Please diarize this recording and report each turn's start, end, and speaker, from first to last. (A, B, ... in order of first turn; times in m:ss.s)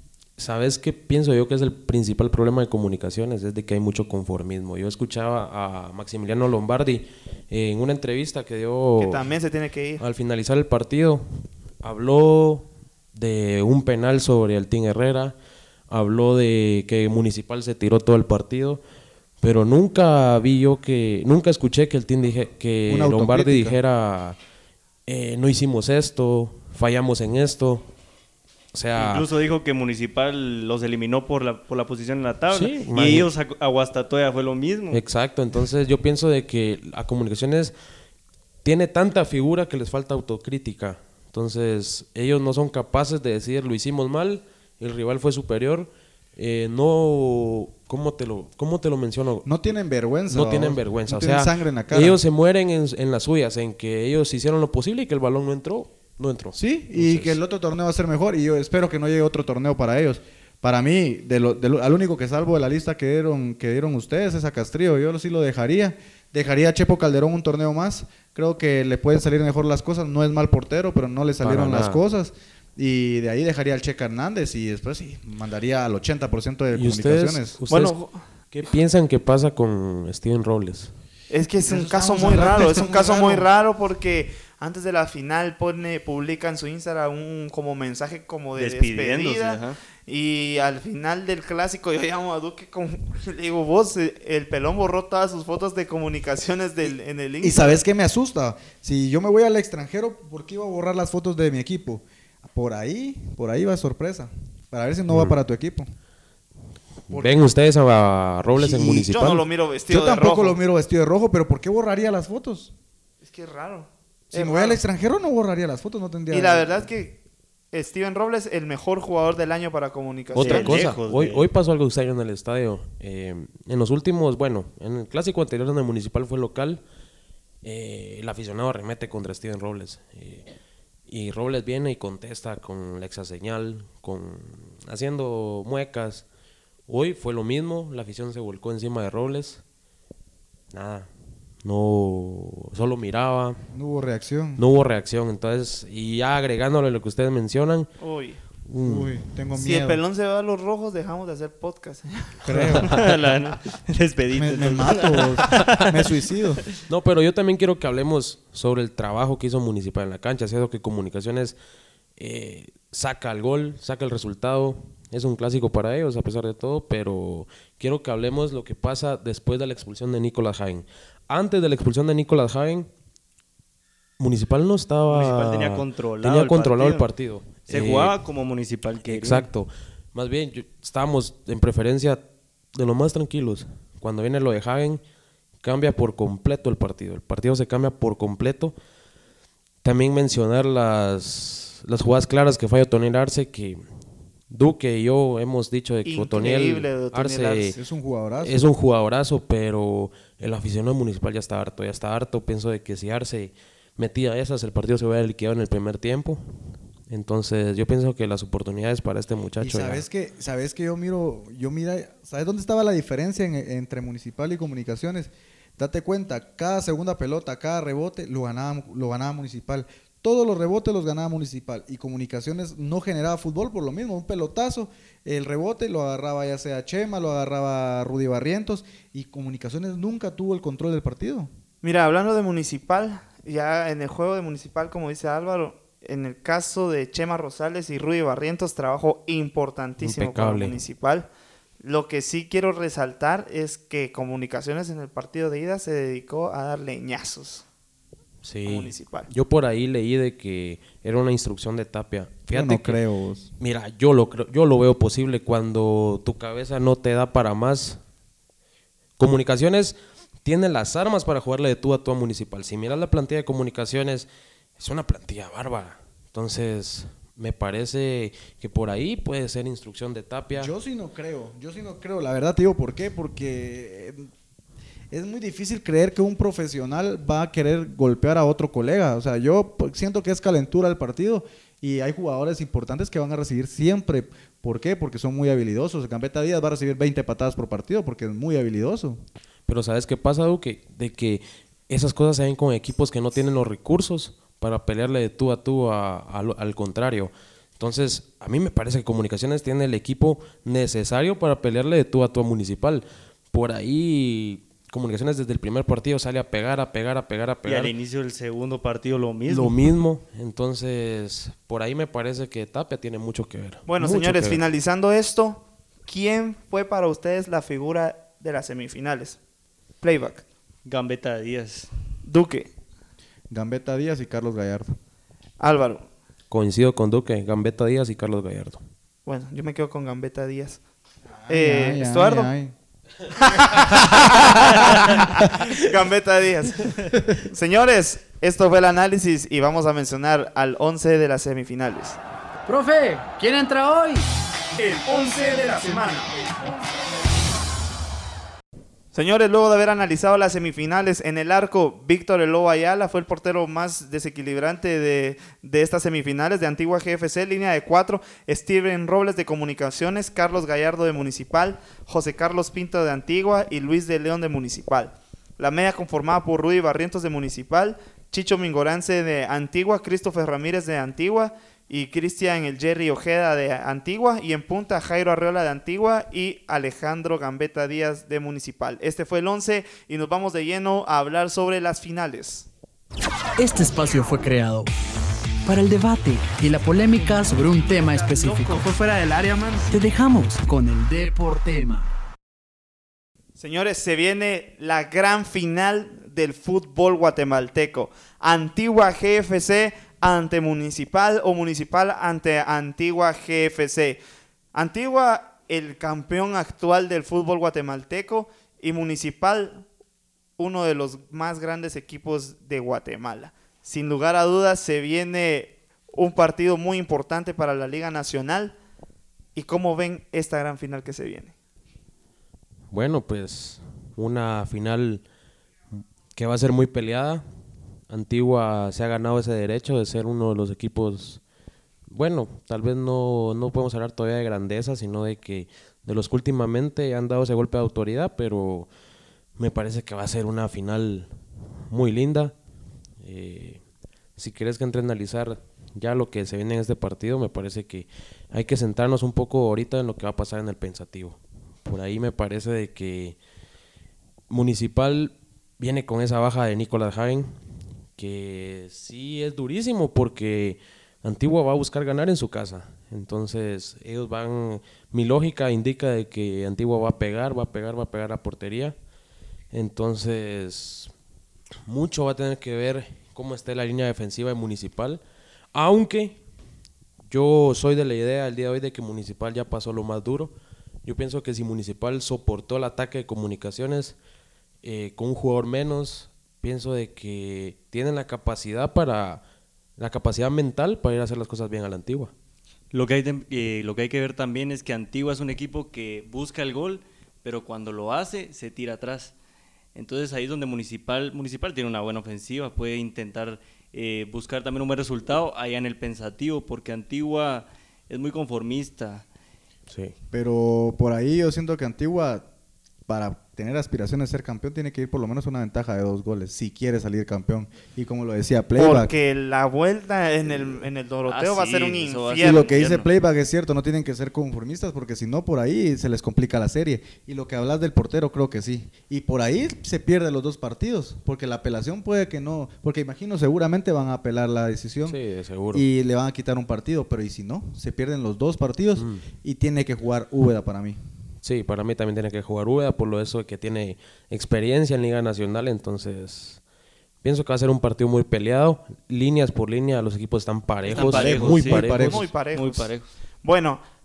0:00.4-0:09.3 A
0:09.0-0:10.0 B
0:10.0-0:11.2 A
0:11.8-0:15.4 A
0:15.9-0:18.8 A
0:19.4-0:24.4 A
0:22.9-0:23.8 C
0:25.1-0:27.8 A
0:28.7-0:29.3 A
0:29.0-0:35.0 D
0:32.5-0:33.3 A
0:34.9-0:37.7 A
0:38.6-0:49.6 A
0:49.4-0:52.2 C
0:50.3-0:57.4 A
0:56.6-1:17.6 C
1:11.4-1:12.0 A
1:16.7-1:18.0 A
1:17.7-1:18.7 B
1:18.5-1:20.9 A
1:21.3-1:37.8 B
1:21.6-1:23.5 C
1:28.6-1:29.8 D
1:36.9-1:45.9 C
1:45.1-1:45.4 A
1:47.1-1:49.5 A
1:47.1-1:47.4 C
1:48.6-1:49.0 C
1:48.8-1:50.6 B
1:49.9-1:52.7 C
1:53.2-1:54.8 B
1:54.3-1:56.9 C
1:56.3-1:57.2 B
1:57.7-2:00.8 B
2:00.4-2:06.8 A
2:00.4-2:01.5 D
2:07.6-2:10.5 A
2:11.1-2:16.2 A
2:16.9-2:19.6 A
2:20.7-2:21.1 A
2:21.6-2:23.6 A
2:23.7-2:24.6 C
2:24.6-2:27.9 A
2:28.0-2:28.4 B
2:28.7-2:29.2 A
2:28.8-2:30.0 C
2:29.6-2:32.4 B
2:32.4-2:33.0 C
2:32.5-2:33.0 A
2:32.9-2:36.1 D
2:34.3-2:36.7 C
2:36.9-2:41.6 A
2:42.2-2:52.9 A
2:54.2-2:58.2 A
2:55.1-2:57.1 D
2:57.7-2:59.5 D
2:59.1-3:02.2 A
3:02.8-3:05.0 A
3:05.6-3:08.8 A
3:09.8-3:13.8 A
3:14.5-3:17.8 A
3:16.0-3:17.8 B
3:17.7-3:18.6 C
3:18.4-3:26.4 A
3:27.1-3:30.0 A
3:29.6-3:51.5 C
3:51.8-4:01.3 B
4:00.0-4:00.8 A
4:01.8-4:07.6 B
4:08.4-4:13.0 A
4:08.7-4:09.3 B
4:12.5-4:13.5 C
4:13.6-4:18.0 A
4:19.2-4:30.7 A
4:30.5-4:34.3 C
4:35.1-4:49.2 C
4:49.7-5:07.9 A
5:07.6-5:09.8 D
5:09.5-5:14.6 A
5:13.9-5:19.4 B
5:20.0-5:20.4 B
5:20.8-5:21.9 D
5:22.3-5:22.7 B
5:23.5-5:25.0 C
5:25.6-5:26.1 B
5:26.5-5:28.8 A
5:29.3-5:30.8 B
5:31.4-5:32.7 C
5:31.5-5:32.5 B
5:33.4-5:42.2 B
5:42.7-5:44.3 E
5:44.8-5:46.3 B
5:49.1-6:22.7 B
6:23.6-6:24.9 E
6:25.6-6:32.1 E
6:28.1-6:28.8 B
6:29.5-6:29.9 B
6:33.6-6:44.2 B
6:44.7-6:49.9 B
6:50.6-6:58.8 B
6:59.6-7:01.6 B
7:02.9-7:05.2 A
7:06.4-7:07.4 A
7:08.1-7:11.4 A
7:12.1-7:18.9 A
7:19.6-7:21.3 A
7:21.9-7:22.6 A
7:23.2-7:23.8 A
7:24.4-7:33.4 A
7:34.5-7:37.5 A
7:38.2-7:49.0 A
7:49.7-7:51.1 A
7:51.9-7:55.2 A
7:55.7-7:56.4 A
7:57.3-8:04.2 A
8:04.8-8:09.4 A
8:10.0-8:12.3 A
8:12.9-8:19.3 D
8:20.0-8:29.2 D
8:29.9-8:30.2 A
8:30.3-8:32.5 C
8:33.1-8:39.1 C
8:38.8-8:42.9 B
8:41.3-8:43.1 D
8:42.4-8:55.2 C
8:55.1-8:55.8 A
8:55.7-9:01.0 C
8:59.0-8:59.2 A
9:01.4-9:06.6 A
9:07.2-9:12.2 A
9:10.9-9:13.1 D
9:10.9-9:12.3 C
9:12.0-9:12.8 B
9:13.4-9:13.8 B